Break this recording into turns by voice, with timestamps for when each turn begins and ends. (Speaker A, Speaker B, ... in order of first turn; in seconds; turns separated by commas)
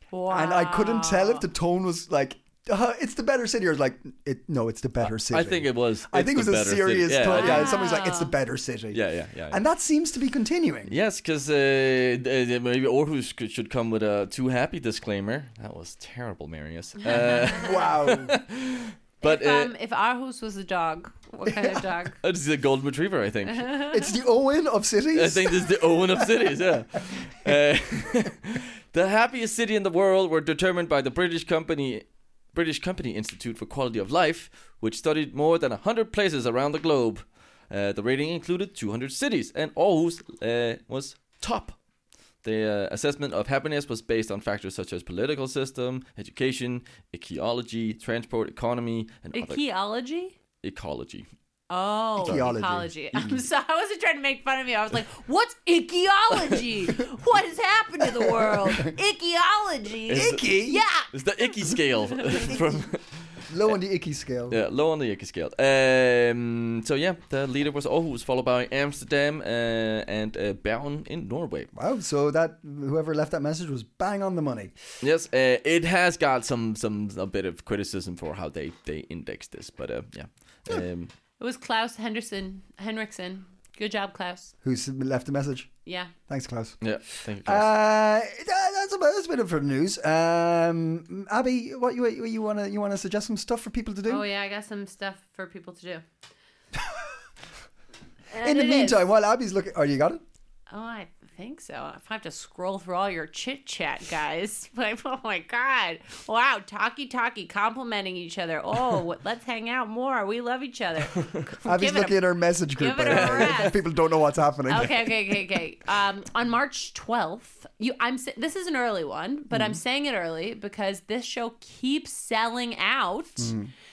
Speaker A: 0.1-1.5, Speaker B: 0.3-11.0, Speaker C: 5.0-7.8, Speaker A: 7.3-8.3, Speaker C: 8.9-9.6, Speaker C: 10.9-19.7, Speaker B: 17.5-18.4, Speaker A: 19.2-22.2, Speaker B: 21.5-21.9, Speaker C: 22.2-23.7, Speaker B: 23.8-28.1, Speaker C: 25.1-41.8, Speaker C: 42.4-49.6, Speaker A: 49.3-50.4, Speaker C: 50.6-51.3, Speaker A: 51.7-61.1, Speaker B: 52.2-53.4, Speaker C: 52.2-52.5, Speaker B: 58.0-58.9, Speaker C: 60.1-60.5, Speaker B: 60.1-60.8, Speaker C: 61.1-63.7, Speaker B: 63.5-64.6, Speaker C: 64.5-71.7, Speaker B: 71.7-74.8, Speaker C: 75.0-81.1, Speaker A: 81.4-84.5, Speaker B: 84.6-85.7, Speaker A: 85.9-86.1, Speaker B: 86.3-86.8, Speaker C: 86.8-87.7, Speaker B: 87.5-94.3, Speaker A: 94.1-96.0, Speaker B: 96.7-97.1, Speaker A: 98.3-99.0, Speaker B: 98.4-100.2, Speaker A: 100.7-113.9, Speaker B: 111.7-115.1, Speaker C: 113.1-113.7, Speaker A: 114.7-123.5, Speaker B: 119.5-119.8, Speaker B: 123.4-123.7